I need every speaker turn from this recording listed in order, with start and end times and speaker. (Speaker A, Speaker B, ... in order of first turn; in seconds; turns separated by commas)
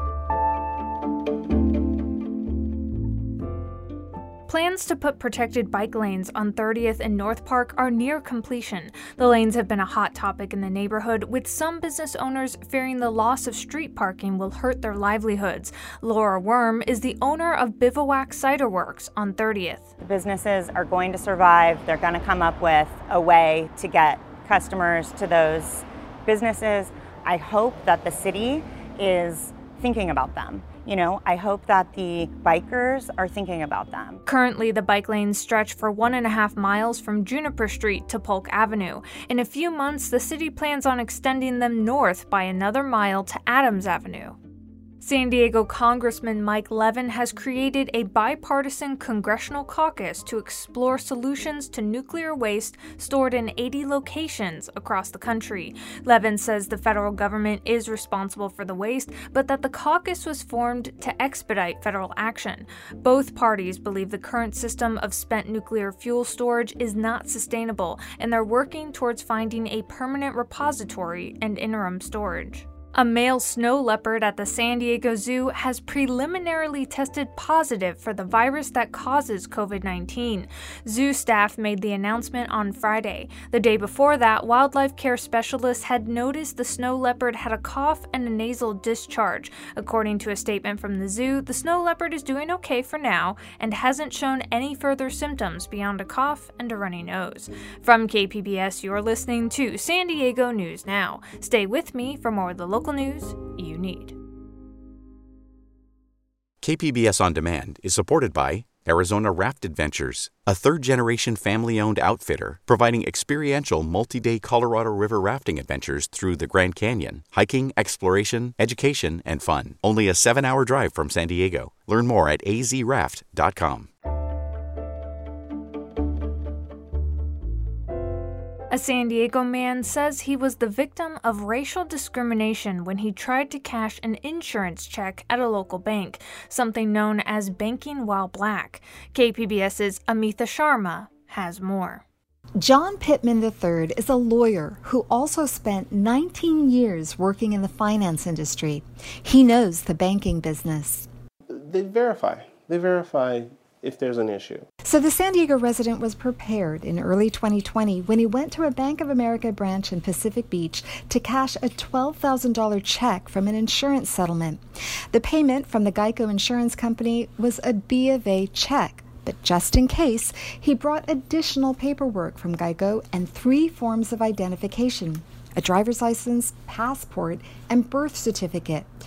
Speaker A: 4.5-19.9, Speaker B: 20.1-34.2, Speaker A: 34.2-44.4, Speaker A: 45.0-104.2, Speaker C: 106.6-123.9, Speaker A: 128.7-142.0, Speaker D: 142.6-151.1, Speaker E: 151.5-154.6, Speaker D: 154.8-164.6, Speaker D: 165.1-178.9